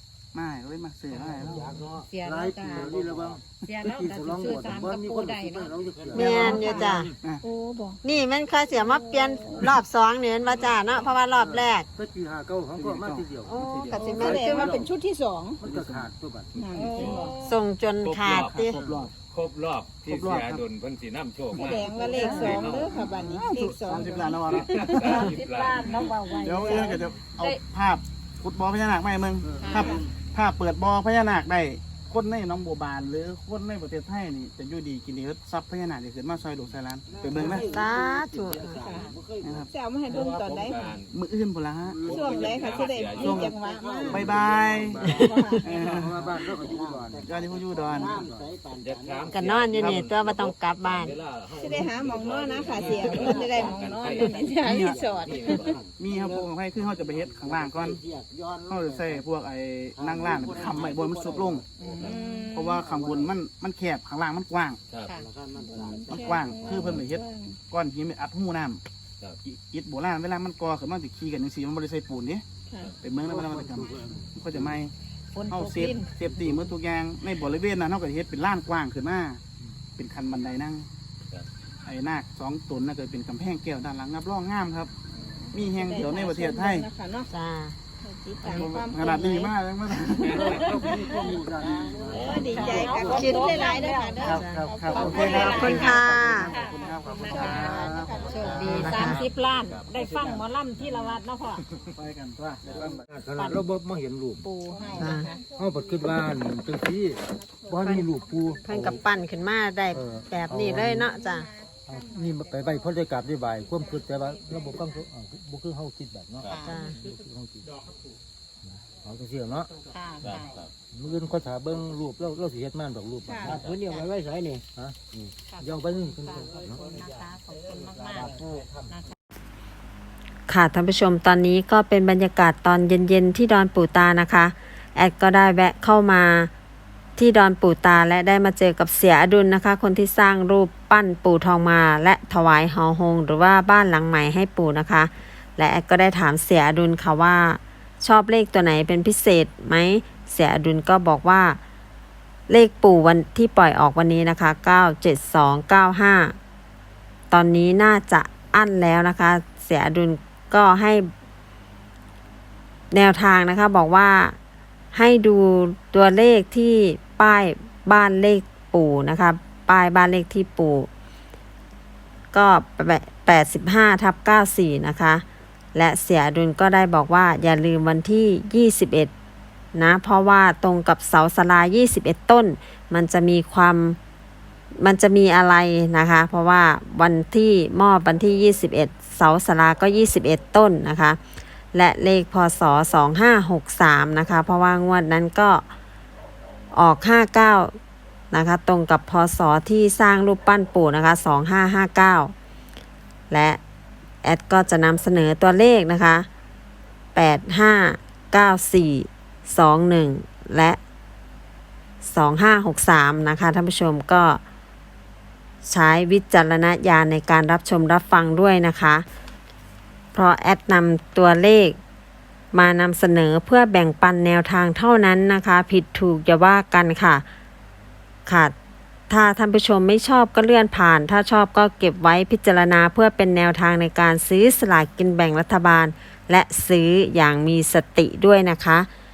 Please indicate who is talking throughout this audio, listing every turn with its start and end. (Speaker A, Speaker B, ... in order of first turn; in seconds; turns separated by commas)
Speaker A: 0.3-1.7, Speaker B: 1.2-3.0, Speaker C: 1.2-7.1, Speaker D: 2.7-3.4, Speaker B: 3.6-5.8, Speaker D: 5.9-6.8, Speaker E: 6.1-7.1, Speaker F: 6.2-8.0, Speaker E: 8.0-11.8, Speaker F: 8.7-9.8, Speaker G: 10.4-11.2, Speaker C: 11.3-14.9, Speaker A: 12.7-14.7, Speaker E: 13.4-14.7, Speaker F: 13.9-15.6, Speaker C: 15.6-16.5, Speaker A: 15.6-16.1, Speaker G: 16.5-17.3, Speaker F: 16.6-17.4, Speaker B: 16.7-17.6, Speaker E: 17.4-18.8, Speaker G: 18.0-22.9, Speaker A: 18.7-19.1, Speaker A: 20.0-20.6, Speaker F: 21.5-25.2, Speaker B: 21.8-22.6, Speaker A: 22.1-25.3, Speaker G: 24.1-26.2, Speaker B: 25.0-27.6, Speaker A: 25.9-37.8, Speaker C: 29.4-29.9, Speaker B: 29.6-30.0, Speaker F: 29.7-30.0, Speaker D: 37.0-39.7, Speaker E: 37.4-38.8, Speaker F: 38.8-41.0, Speaker A: 39.4-40.4, Speaker G: 40.1-41.2, Speaker A: 41.1-42.3, Speaker D: 41.8-45.2, Speaker G: 42.0-43.5, Speaker F: 42.1-44.2, Speaker A: 43.1-43.5, Speaker A: 44.1-46.2, Speaker C: 44.1-47.2, Speaker G: 44.1-44.5, Speaker F: 45.0-45.7, Speaker D: 45.9-49.6, Speaker A: 47.2-48.3, Speaker C: 47.8-48.5, Speaker G: 48.7-55.9, Speaker E: 49.3-51.1, Speaker A: 49.7-50.1, Speaker F: 51.5-55.8, Speaker D: 52.5-59.3, Speaker A: 54.6-55.1, Speaker A: 55.9-58.0, Speaker A: 58.7-64.8, Speaker D: 59.9-63.4, Speaker B: 61.8-62.5, Speaker F: 62.0-62.8, Speaker G: 64.9-65.1, Speaker D: 65.1-67.0, Speaker F: 65.5-67.6, Speaker A: 66.1-68.8, Speaker A: 69.4-72.4, Speaker A: 73.0-74.9, Speaker C: 73.2-74.7, Speaker B: 75.3-76.1, Speaker A: 75.5-79.4, Speaker C: 76.3-76.6, Speaker A: 80.0-80.9, Speaker A: 81.8-84.9, Speaker F: 85.1-87.3, Speaker A: 85.5-86.9, Speaker E: 87.3-87.8, Speaker F: 88.0-89.5, Speaker E: 88.4-88.8, Speaker A: 88.5-90.6, Speaker G: 90.2-90.7, Speaker C: 90.2-93.4, Speaker F: 90.3-91.4, Speaker D: 90.6-93.3, Speaker G: 92.1-92.7, Speaker F: 92.1-96.0, Speaker B: 92.5-101.7, Speaker E: 93.0-93.6, Speaker A: 93.4-99.1, Speaker E: 94.2-94.7, Speaker C: 94.4-95.3, Speaker E: 95.2-96.5, Speaker F: 97.1-99.0, Speaker G: 98.0-99.9, Speaker E: 98.6-99.2, Speaker A: 99.9-101.2, Speaker A: 101.9-103.0, Speaker G: 102.6-102.9, Speaker C: 102.7-104.5, Speaker B: 103.3-103.6, Speaker B: 104.4-105.4, Speaker F: 104.6-109.3, Speaker E: 104.9-105.3, Speaker C: 105.5-109.0, Speaker E: 107.8-108.1, Speaker E: 108.6-111.5, Speaker C: 109.9-111.1, Speaker F: 110.9-115.1, Speaker C: 111.9-117.7, Speaker B: 116.5-117.0, Speaker E: 116.6-117.0, Speaker C: 118.6-119.7, Speaker B: 119.8-120.6, Speaker G: 120.2-120.7, Speaker C: 120.9-123.8, Speaker F: 123.2-123.7, Speaker D: 123.4-124.7, Speaker B: 123.7-124.0, Speaker C: 124.7-126.9, Speaker B: 125.5-129.1, Speaker D: 126.3-129.0, Speaker E: 130.5-136.5, Speaker E: 137.2-151.6, Speaker E: 152.5-156.3, Speaker E: 157.3-161.1, Speaker E: 162.9-164.3, Speaker E: 164.9-170.9, Speaker E: 172.3-175.2, Speaker E: 175.7-179.1, Speaker E: 179.7-184.0, Speaker E: 184.8-191.2, Speaker E: 191.7-195.7, Speaker E: 196.7-197.7, Speaker E: 198.3-202.3, Speaker E: 203.3-203.6, Speaker E: 204.2-206.3, Speaker E: 207.1-210.8, Speaker E: 212.0-214.4, Speaker E: 215.7-219.0, Speaker E: 220.1-221.8, Speaker E: 222.5-227.2, Speaker E: 228.2-228.5, Speaker E: 229.1-238.9